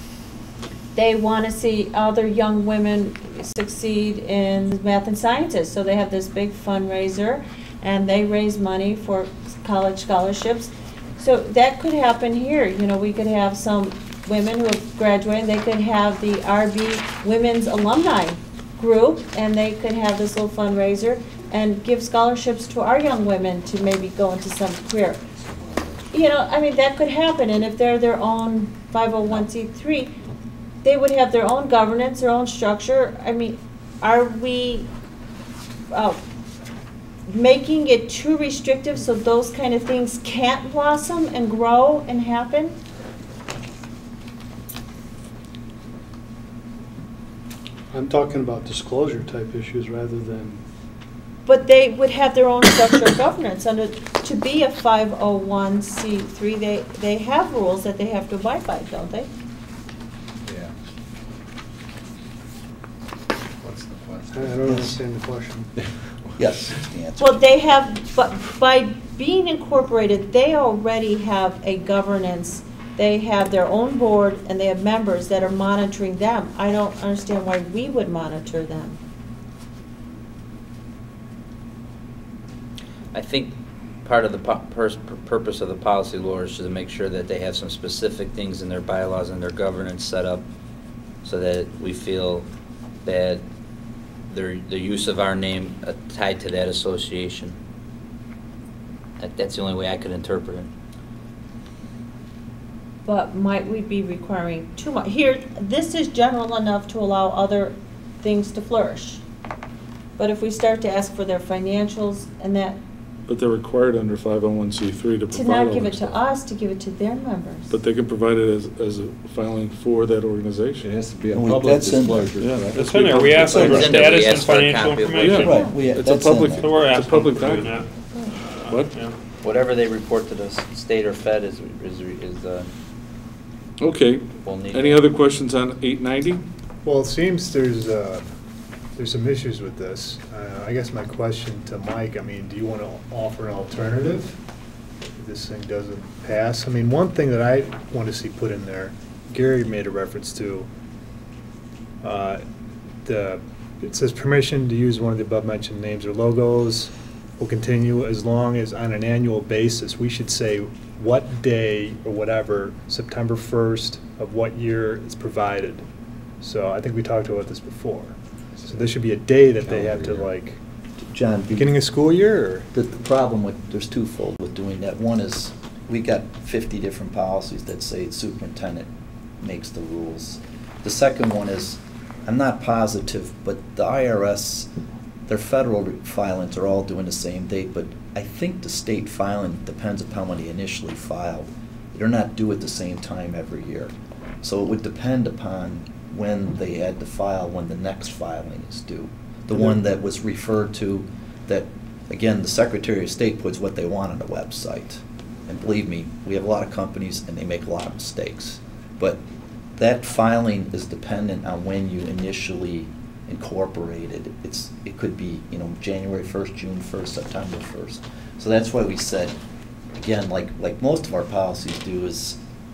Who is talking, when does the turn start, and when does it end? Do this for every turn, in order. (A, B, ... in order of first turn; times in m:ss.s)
0:00.9-0:25.2 A
0:25.4-0:26.1 B
0:26.1-0:30.1 A
0:30.8-0:34.9 A
0:35.9-0:36.2 A
0:37.3-0:42.8 A
0:47.9-0:50.6 C
0:51.4-0:59.3 A
1:00.4-1:00.7 B
1:03.6-1:04.6 B
1:04.3-1:05.7 C
1:04.6-1:04.9 D
1:05.8-1:06.3 B
1:06.4-1:07.4 D
1:07.2-1:19.0 A
1:23.1-1:30.4 E
1:31.2-1:32.5 E
1:33.0-1:33.4 E
1:34.3-1:37.6 E
1:39.2-1:40.7 E
1:43.0-1:49.2 A
1:50.2-1:52.8 A
1:53.3-1:56.2 F
1:55.3-1:57.7 A
1:57.7-2:00.9 F
2:00.8-2:03.1 B
2:01.3-2:02.3 D
2:02.4-2:04.0 F
2:02.7-2:05.7 G
2:03.4-2:05.6 E
2:03.5-2:03.8 D
2:05.2-2:09.0 F
2:05.4-2:06.7 D
2:06.5-2:09.2 G
2:09.4-2:12.7 E
2:13.8-2:16.4 F
2:14.4-2:15.0 E
2:16.8-2:18.3 H
2:18.9-2:24.4 H
2:25.1-2:30.7 H
2:32.0-2:32.4 H
2:33.0-2:45.8 H
2:46.4-2:50.6 H
2:48.6-2:48.9 B
2:49.6-2:50.3 B
2:51.0-2:51.8 D
2:51.5-2:52.7 H
2:52.7-2:58.9 D
2:59.4-3:04.7 D
3:05.3-3:29.2 D
3:29.8-3:39.4 D
3:40.0-3:42.4 D